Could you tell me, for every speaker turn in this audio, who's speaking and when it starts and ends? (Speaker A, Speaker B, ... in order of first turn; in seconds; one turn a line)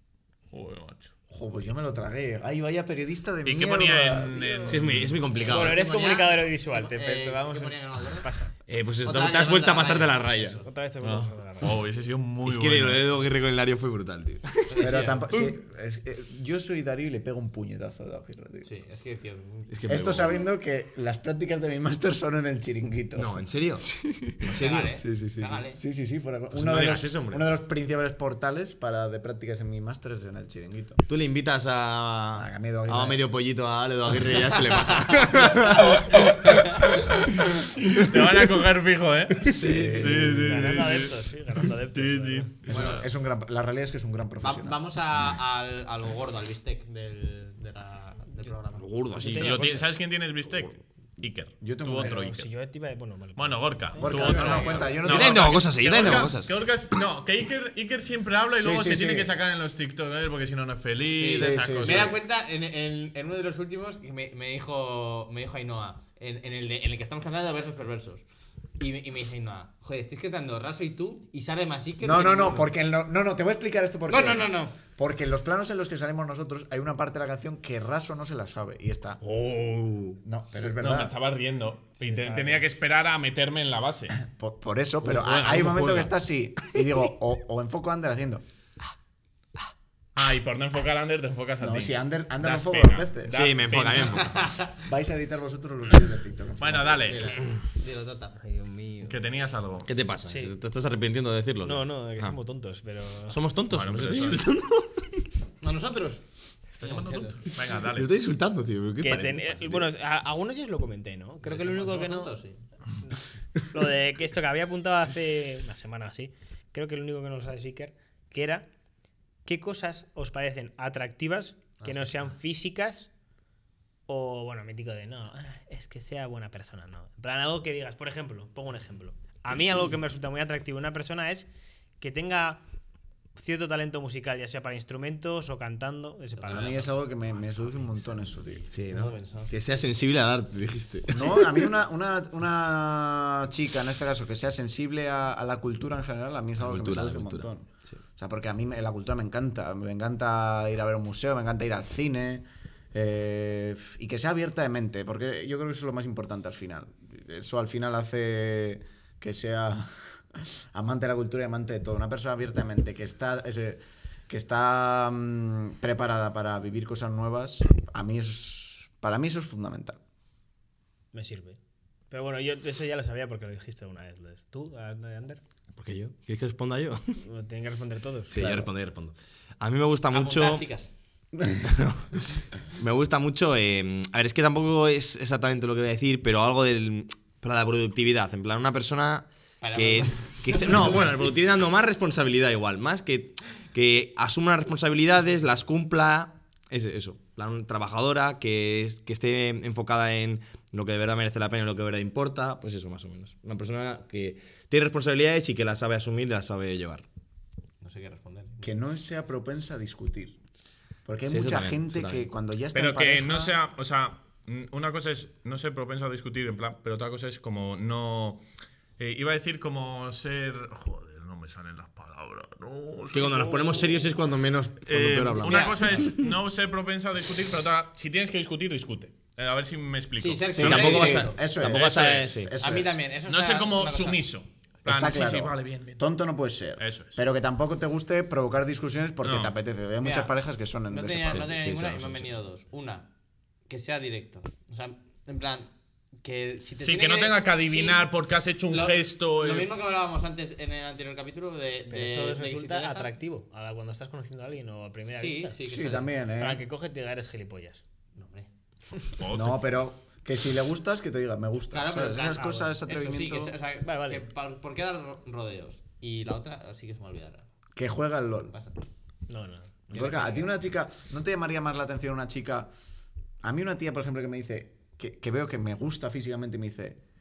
Speaker A: 0.5-1.1
Speaker B: 1.3-4.8
Speaker A: 3.4-5.2
Speaker C: 4.7-5.8
Speaker D: 5.3-8.3
Speaker E: 5.5-8.5
Speaker C: 8.7-10.6
Speaker D: 9.0-10.7
Speaker E: 10.6-11.7
Speaker A: 11.0-13.0
Speaker C: 12.4-15.5
Speaker D: 14.7-15.3
Speaker B: 14.8-18.7
Speaker D: 18.6-19.8
Speaker C: 19.7-20.4
Speaker B: 19.9-31.0
Speaker C: 23.1-23.9
Speaker C: 24.4-24.9
Speaker D: 24.5-25.8
Speaker C: 26.5-27.4
Speaker C: 31.1-36.3
Speaker B: 32.4-33.2
Speaker A: 37.8-41.2
Speaker B: 39.6-40.6
Speaker E: 39.6-42.5
Speaker A: 41.9-43.0
Speaker B: 42.7-44.8
Speaker D: 42.7-43.0
Speaker D: 44.4-48.8
Speaker C: 48.8-49.9
Speaker E: 49.2-49.8
Speaker A: 49.3-52.5
Speaker B: 51.6-52.2
Speaker E: 52.0-54.9
Speaker A: 53.4-62.1
Speaker B: 54.0-55.6
Speaker D: 54.1-55.0
Speaker C: 55.0-56.5
Speaker B: 58.5-59.4
Speaker D: 61.1-68.2
Speaker B: 61.2-62.1
Speaker D: 68.8-72.7
Speaker B: 72.0-79.2
Speaker D: 74.1-74.8
Speaker C: 79.2-80.2
Speaker B: 80.2-81.1
Speaker A: 80.8-84.2
Speaker E: 82.0-82.6
Speaker B: 84.2-88.4
Speaker C: 85.0-86.1
Speaker A: 90.2-94.3
Speaker B: 91.6-93.5
Speaker C: 93.3-94.4
Speaker D: 94.1-94.7
Speaker B: 94.8-97.1
Speaker A: 96.6-97.4
Speaker D: 97.0-98.4
Speaker E: 98.4-99.2
Speaker A: 99.0-99.9
Speaker C: 99.8-102.3
Speaker E: 100.2-100.5
Speaker E: 101.6-103.4
Speaker C: 103.3-105.2
Speaker A: 103.7-104.4
Speaker D: 105.6-106.2
Speaker D: 106.8-107.4
Speaker A: 106.8-108.1
Speaker C: 107.8-109.8
Speaker E: 109.0-112.3
Speaker D: 111.4-112.6
Speaker E: 113.0-118.7
Speaker E: 119.5-123.1
Speaker D: 121.8-122.2
Speaker E: 124.1-131.5
Speaker E: 132.0-132.6
Speaker E: 133.3-136.8
Speaker D: 136.3-137.7
Speaker B: 136.5-138.7
Speaker C: 138.7-141.7
Speaker D: 138.8-139.5
Speaker B: 141.1-170.0
Speaker C: 146.6-148.0
Speaker E: 171.1-171.6
Speaker E: 172.1-175.4
Speaker C: 175.7-177.2
Speaker E: 177.2-178.4
Speaker C: 178.3-180.7
Speaker B: 178.3-178.7
Speaker D: 180.1-180.9
Speaker C: 181.5-207.0
Speaker D: 189.6-191.1
Speaker D: 207.8-208.7
Speaker B: 208.6-210.4
Speaker B: 211.0-213.6
Speaker C: 211.2-212.3
Speaker A: 212.7-218.4
Speaker A: 219.0-224.1
Speaker C: 223.1-226.1
Speaker A: 224.8-231.0
Speaker D: 225.4-226.1
Speaker D: 230.2-231.4
Speaker B: 230.5-233.0
Speaker C: 230.6-232.5
Speaker A: 231.6-232.3
Speaker D: 232.6-234.2
Speaker A: 233.3-236.0
Speaker B: 234.8-241.5
Speaker A: 236.8-237.2
Speaker A: 239.2-239.5
Speaker D: 240.0-240.3
Speaker D: 240.9-243.1
Speaker C: 241.2-242.4
Speaker D: 243.7-245.7
Speaker D: 246.2-248.1
Speaker A: 246.8-249.7
Speaker D: 248.7-253.1
Speaker E: 251.9-255.6
Speaker D: 255.1-256.1
Speaker B: 255.6-256.6
Speaker E: 256.4-257.8
Speaker D: 258.1-258.5
Speaker A: 259.2-259.6
Speaker B: 259.3-263.6
Speaker D: 261.7-267.4
Speaker E: 263.8-264.2
Speaker B: 267.8-268.5
Speaker D: 268.5-268.8
Speaker E: 269.3-270.4
Speaker B: 269.9-272.7
Speaker B: 273.4-277.0